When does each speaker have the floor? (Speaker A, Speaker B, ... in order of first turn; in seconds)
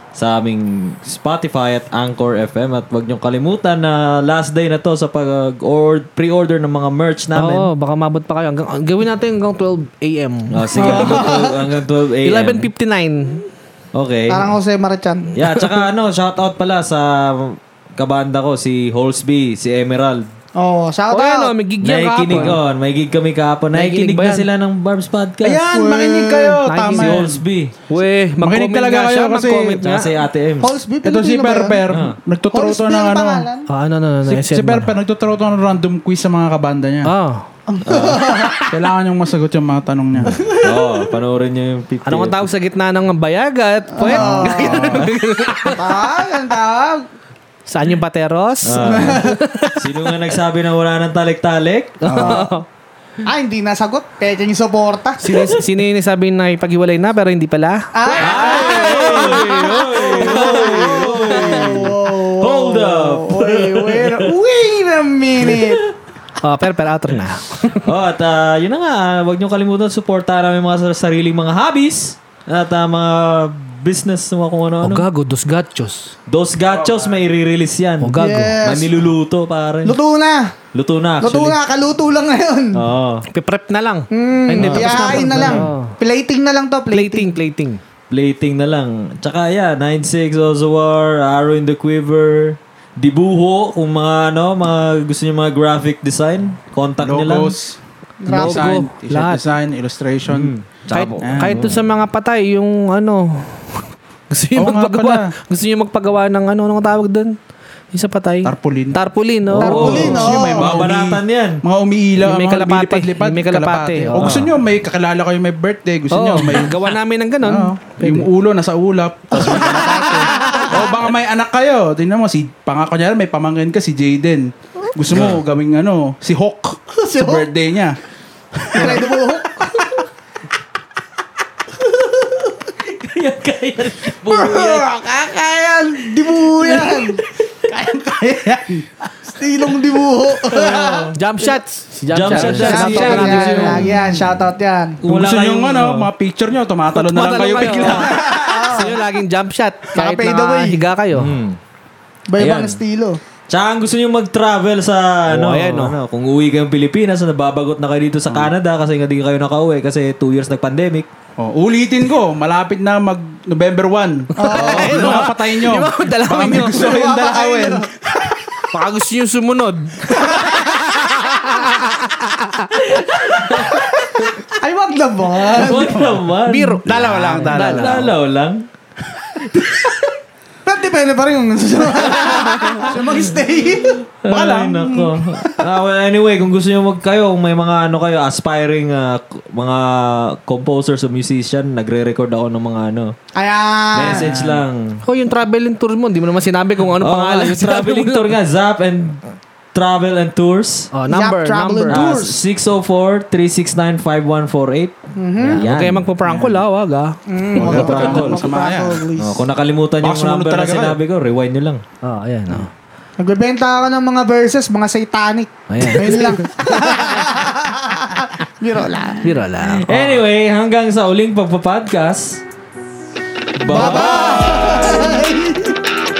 Speaker A: 0.1-7.7, 10.5-12.7, 13.9-14.5, 15.3-20.3, 21.8-25.7, 26.9-27.7, 29.8-30.7, 31.9-32.2, 37.9-38.2, 40.6-42.5, 48.6-52.4, 55.3-55.6, 58.1-64.3, 65.5-65.8, 67.8-75.1, 76.3-80.0, 80.7-81.6, 82.7-83.2, 84.6-85.6, 88.1-97.5, 100.3-101.8, 109.5-111.6, 114.2-114.5, 119.6-119.9, 125.1-125.4, 132.8-134.9, 140.4-141.2, 142.1-144.2, 145.0-146.0, 151.1-151.6, 152.4-152.8, 153.5-161.1, 164.6-165.0, 172.9-173.9, 175.5-178.7, 179.5-179.9, 182.1-183.0, 183.8-193.2, 193.9-195.0, 197.0-199.2, 199.7-200.9, 201.9-206.0, 207.6-208.5, 209.2-211.8, 219.6-222.4, 223.6-225.3
Speaker B: 7.4-11.4, 12.2-13.5, 15.4-15.8, 21.1-22.6, 23.7-24.5, 26.6-27.2, 27.9-30.2, 33.7-34.9, 37.1-37.5, 42.0-46.0, 47.7-50.1, 52.0-52.6, 55.2-57.9, 58.5-61.8, 66.4-67.9, 74.8-76.1, 78.0-78.6, 83.3-86.0, 86.9-87.8, 98.3-99.5, 100.9-107.3, 107.9-110.8, 112.2-114.5, 116.1-118.3, 119.8-120.7, 141.1-143.9, 145.1-146.0, 146.9-151.3, 155.3-156.0, 164.3-166.8, 168.7-172.1, 176.5-178.1, 195.1-198.3, 200.9-202.1, 205.5-207.2, 212.0-212.7, 215.7-217.0, 219.2-220.2
Speaker C: 10.8-11.6, 14.3-15.3, 20.6-21.6, 25.7-26.6, 30.6-31.8, 32.5-33.7, 37.7-38.7, 40.3-41.0, 43.9-45.0, 45.6-47.1, 48.8-49.4, 52.2-52.5, 53.2-55.3, 57.9-65.8, 78.2-79.0, 79.8-80.5, 81.2-82.8, 84.1-87.3, 98.2-98.8, 109.6-110.7, 119.3-120.9, 127.0-127.5, 128.7-130.0, 132.1-132.4, 134.2-137.2, 139.3-141.1, 142.4-145.0, 147.9-149.0, 149.9-150.9, 152.3-153.2, 164.4-165.2, 166.6-168.6, 170.1-171.7, 173.1-176.1, 180.7-184.0, 193.3-194.3, 201.1-202.4, 205.2-205.7, 207.3-209.4, 213.2-219.4, 223.6-225.8
Speaker D: 25.4-27.4, 28.4-29.8, 31.0-33.5, 34.3-37.1, 38.6-40.4, 44.1-45.0, 52.1-52.4, 76.7-77.2, 97.0-97.8, 98.3-100.5, 101.2-101.6, 104.6-105.3, 108.5-109.0, 109.8-116.9, 117.4-128.0, 128.7-129.1, 136.8-137.1, 137.6-139.3, 142.3-143.8, 145.1-148.3, 161.4-167.9, 175.7-176.2, 176.8-178.0, 184.3-185.2, 193.9-194.6, 206.2-206.6, 207.6-209.0, 210.0-211.0